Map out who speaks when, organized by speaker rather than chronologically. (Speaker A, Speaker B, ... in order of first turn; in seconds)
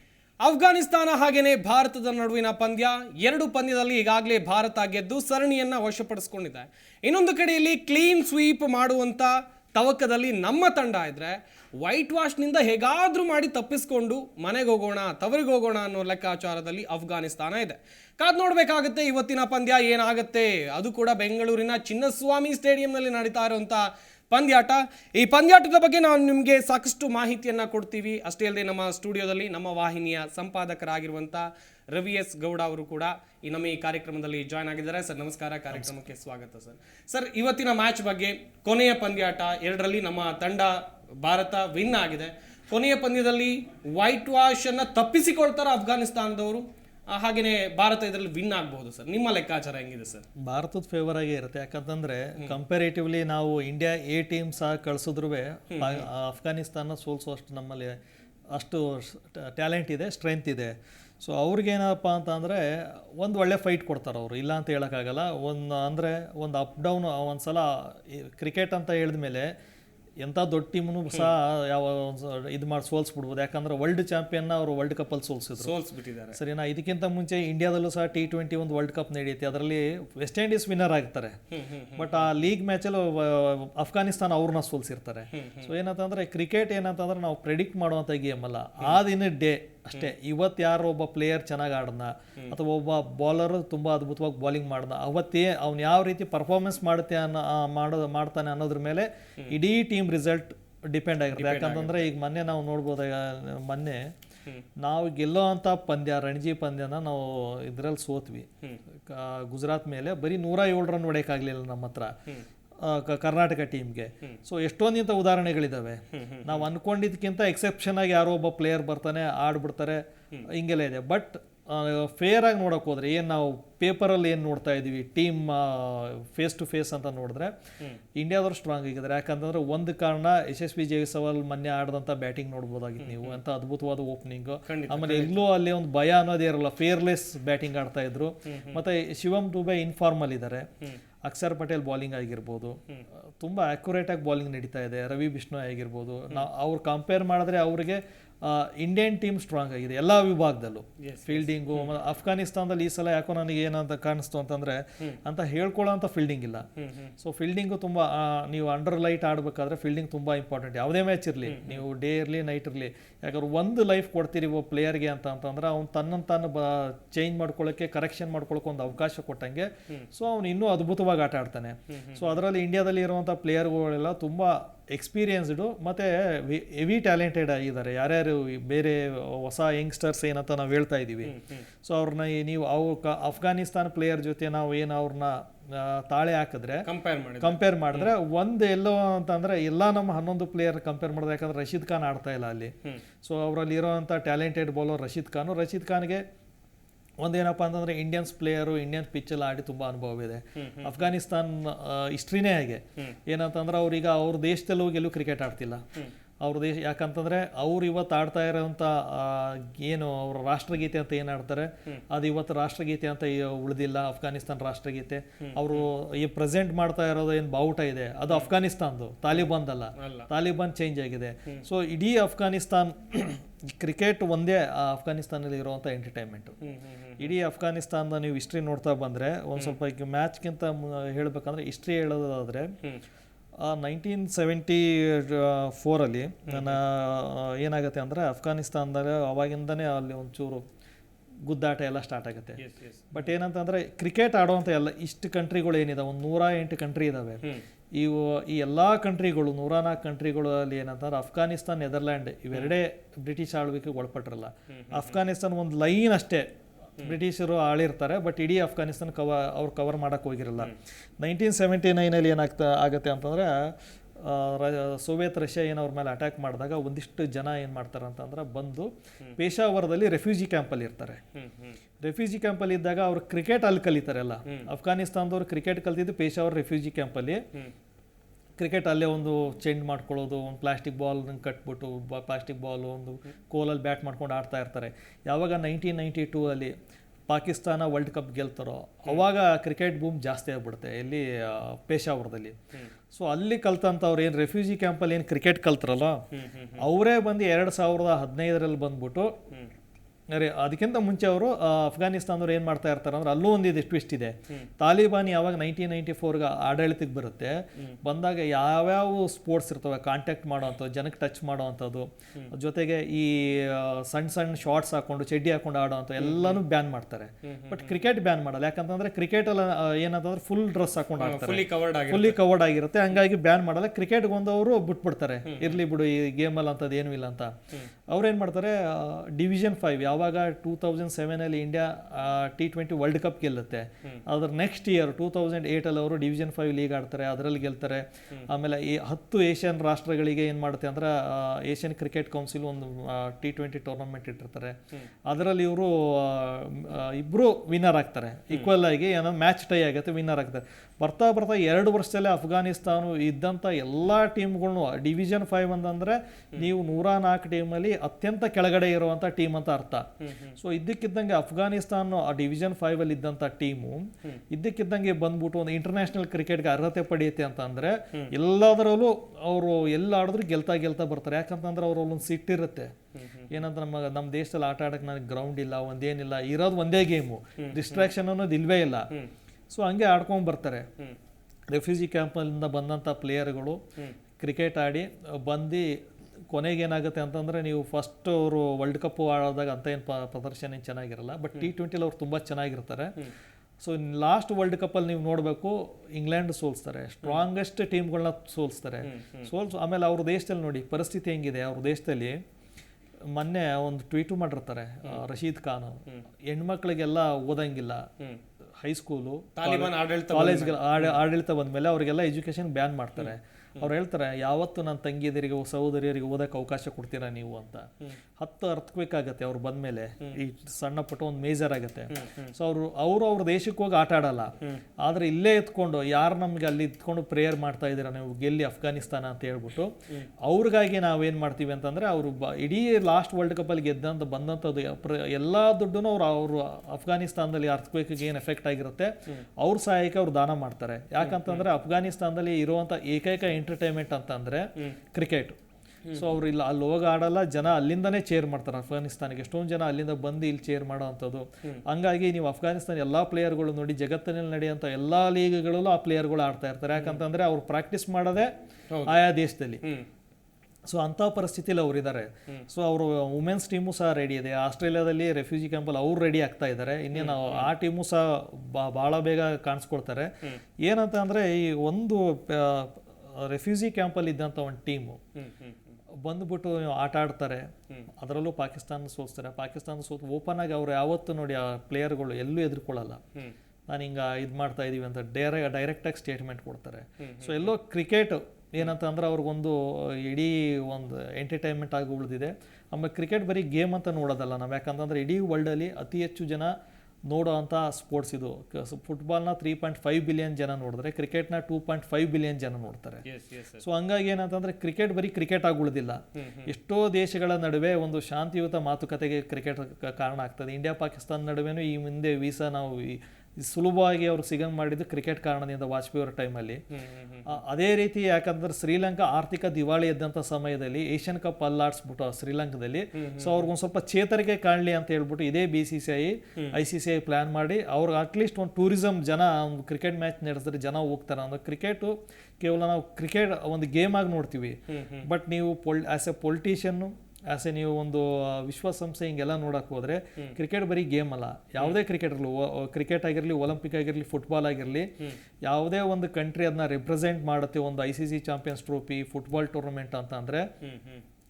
Speaker A: 0.4-50.2, 55.7-56.1, 75.6-76.4, 81.5-82.2, 85.3-85.7, 101.3-102.0, 116.1-116.7, 133.0-133.4, 134.7-135.5, 138.4-138.8, 151.0-151.9, 156.8-157.1, 161.4-161.8, 171.9-172.3, 181.2-181.6, 186.8-188.1, 200.6-201.0, 215.4-215.9, 220.0-220.3, 226.6-227.3, 236.5-236.8, 242.6-243.2, 254.7-255.1, 271.3-271.8, 296.3-296.8, 316.2-316.6, 317.4-318.0, 321.2-322.4, 325.4-325.8, 360.2-360.6, 373.1-373.5, 377.6-378.1, 399.0-399.5, 409.6-411.2, 413.2-413.9, 422.1-422.5, 441.2-441.6, 446.1-446.3, 458.9-459.2, 467.1-467.7, 475.4-475.9, 487.2-487.7, 503.2-503.8, 506.3-506.7, 516.9-517.5, 523.1-523.7, 534.9-535.2, 550.8-551.2
Speaker B: 50.4-58.0, 58.5-69.5, 70.2-75.8, 76.3-81.4, 81.9-104.1, 104.8-108.5, 109.0-112.2, 112.8-127.5, 128.1-140.7, 141.2-142.8, 143.4-156.7, 157.2-186.9, 187.4-196.2, 197.2-205.8, 206.4-226.6, 227.2-232.7, 233.6-240.6, 241.5-256.5, 257.0-271.2, 272.0-277.4, 278.6-286.7, 287.3-292.6, 293.1-296.2, 296.8-299.4, 300.3-327.5, 328.1-372.9, 373.5-379.1, 379.7-380.9, 381.7-383.8, 384.4-386.0, 386.5-393.1, 393.8-402.4, 403.3-408.1, 408.8-445.6, 446.1-458.5, 459.0-459.8, 460.9-470.3, 470.8-475.2, 476.2-483.2, 483.9-496.7, 497.3-503.2, 503.8-516.8, 517.5-545.1, 545.6-550.7